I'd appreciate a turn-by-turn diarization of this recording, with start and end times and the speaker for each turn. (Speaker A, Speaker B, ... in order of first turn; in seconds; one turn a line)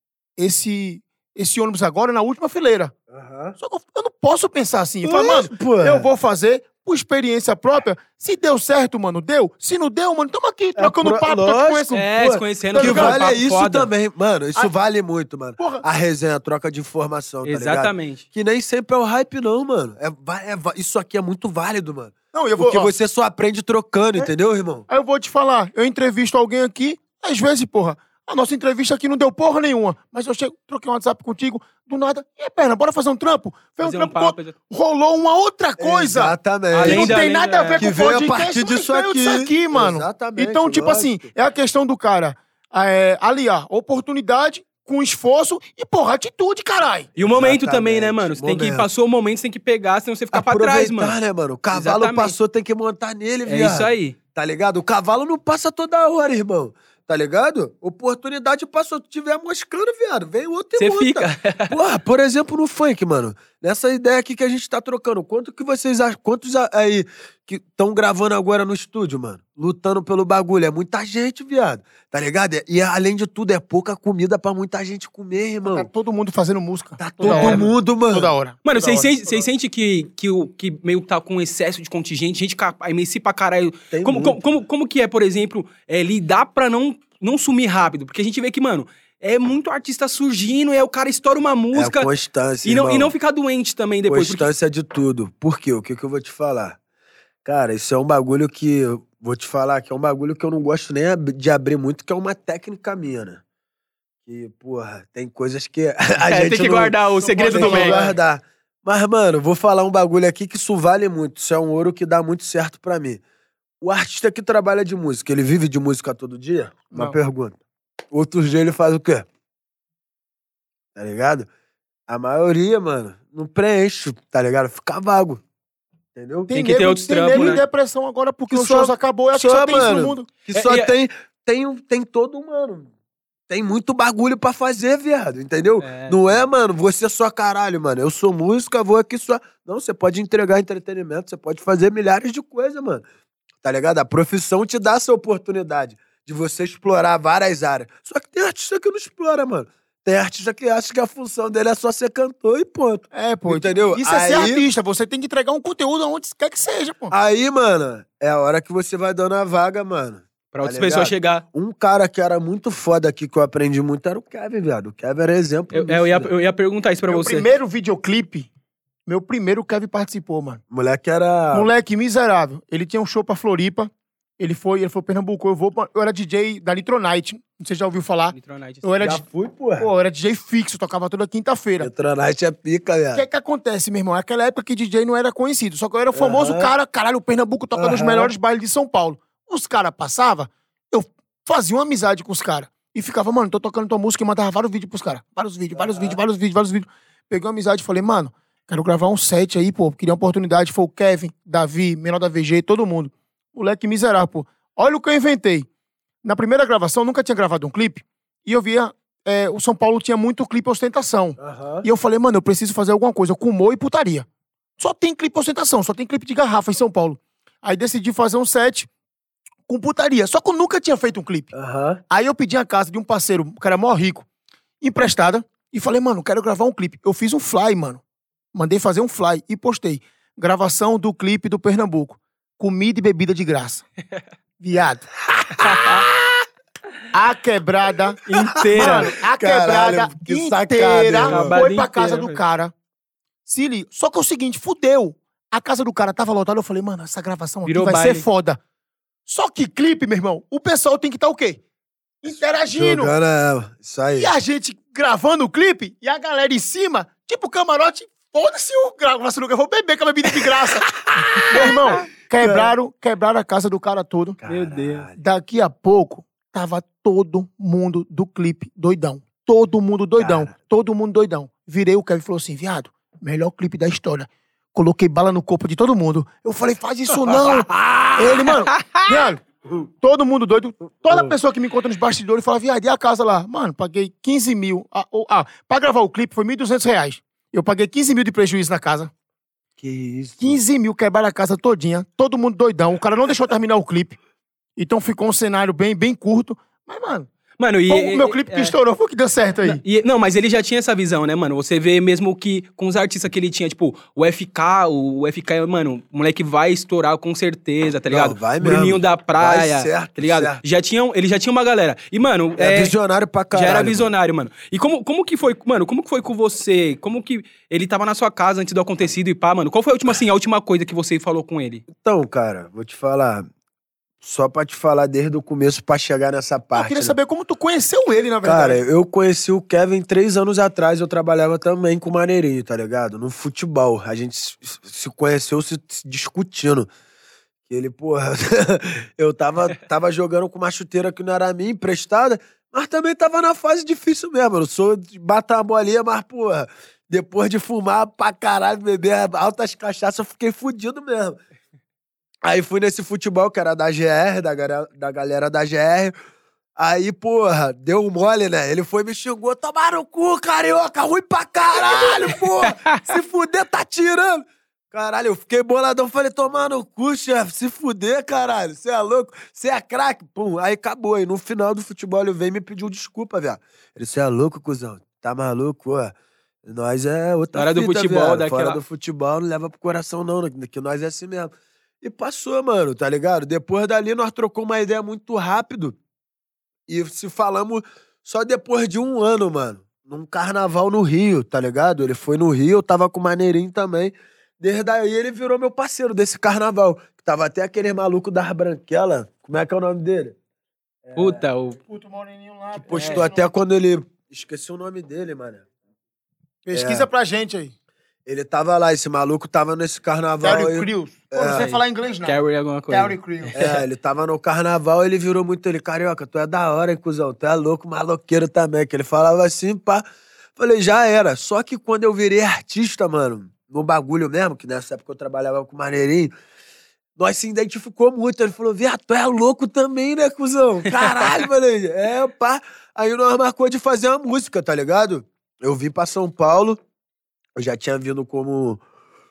Speaker A: 0.4-2.9
Speaker B: 3.1-3.6
Speaker A: 3.6-12.0
Speaker B: 5.0-6.1
Speaker B: 10.8-24.9
Speaker C: 11.9-13.9
Speaker A: 12.7-13.4
Speaker A: 15.6-15.8
Speaker C: 17.4-18.2
Speaker A: 22.3-22.9
Speaker A: 24.9-47.1
Speaker C: 33.8-34.5
Speaker B: 35.8-37.2
Speaker C: 36.7-37.8
Speaker B: 37.8-41.3
Speaker C: 47.2-51.2
Speaker B: 47.2-48.9
Speaker B: 50.3-75.9
Speaker C: 51.7-52.3
Speaker C: 53.5-54.2
Speaker C: 60.8-61.8
Speaker A: 75.7-79.4
Speaker B: 77.0-78.3
Speaker C: 77.2-77.7
Speaker C: 78.7-92.1
Speaker B: 83.9-84.4
Speaker B: 91.8-93.1
Speaker C: 92.7-94.5
Speaker B: 94.1-96.8
Speaker B: 97.5-103.4
Speaker B: 104.3-107.0
Speaker C: 106.2-108.0
Speaker A: 107.2-108.2
Speaker B: 107.5-113.2
Speaker B: 113.8-117.6
Speaker A: 116.9-117.2
Speaker B: 118.1-119.3
Speaker B: 121.0-121.5
Speaker B: 122.1-125.4
Speaker B: 126.2-126.5
Speaker A: 126.5-130.3
Speaker C: 126.5-127.6
Speaker B: 127.3-127.6
Speaker B: 128.5-132.9
Speaker C: 130.5-130.9
Speaker B: 133.5-143.0
Speaker C: 135.8-136.2
Speaker B: 143.6-154.6
Speaker A: 153.1-157.1
Speaker B: 157.1-166.3
Speaker C: 160.5-161.4
Speaker C: 165.7-167.5
Speaker A: 167.1-168.5
Speaker A: 169.1-170.6
Speaker B: 170.7-171.7
Speaker A: 171.5-179.2
Speaker C: 178.3-178.9
Speaker B: 179.0-179.9
Speaker A: 179.8-181.9
Speaker B: 181.8-183.2
Speaker A: 183.1-205.7
Speaker B: 186.1-186.7
Speaker B: 187.8-188.3
Speaker B: 195.7-196.2
Speaker A: 206.2-214.3
Speaker B: 211.4-211.9
Speaker A: 214.8-218.9
Speaker A: 219.7-221.5
Speaker B: 221.5-222.0
Speaker A: 222.1-224.3
Speaker A: 224.8-228.0
Speaker A: 228.5-233.8
Speaker A: 234.6-235.1
Speaker B: 235.4-236.4
Speaker C: 235.7-236.0
Speaker A: 237.1-238.2
Speaker C: 238.3-239.1
Speaker B: 238.3-241.6
Speaker A: 238.8-242.7
Speaker C: 241.3-242.4
Speaker A: 243.5-248.6
Speaker C: 247.7-248.2
Speaker A: 249.3-251.6
Speaker A: 252.2-253.1
Speaker B: 252.7-254.3
Speaker A: 254.2-264.4
Speaker B: 260.4-261.7
Speaker B: 262.4-262.7
Speaker B: 264.4-265.2
Speaker C: 264.5-265.1
Speaker A: 265.2-279.4
Speaker B: 270.2-270.5
Speaker B: 277.3-278.5
Speaker C: 278.7-279.0
Speaker A: 280.0-289.1
Speaker B: 281.1-281.4
Speaker B: 289.8-290.6
Speaker A: 290.4-294.2
Speaker A: 294.8-297.3
Speaker C: 297.6-298.8
Speaker A: 297.9-299.8
Speaker C: 299.6-312.9
Speaker B: 308.1-310.6
Speaker B: 312.6-314.1
Speaker C: 313.5-321.9
Speaker B: 321.9-323.5
Speaker B: 324.2-327.1
Speaker A: 326.7-328.8
Speaker B: 328.4-336.9
Speaker B: 337.7-351.4
Speaker B: 352.4-356.1
Speaker B: 356.8-386.0
Speaker C: 377.5-378.8
Speaker B: 386.9-400.4
Speaker B: 401.0-401.4
Speaker C: 401.2-401.8
Speaker A: 401.8-403.4
Speaker B: 402.9-405.6
Speaker C: 402.9-403.2
Speaker A: 406.6-407.7
Speaker B: 406.7-407.1
Speaker B: 408.3-411.7
Speaker A: 410.4-412.4
Speaker C: 411.5-413.8
Speaker A: 412.9-413.6
Speaker B: 413.6-420.0
Speaker B: 420.6-426.3
Speaker B: 427.2-436.8
Speaker C: 430.9-431.1
Speaker B: 437.6-438.8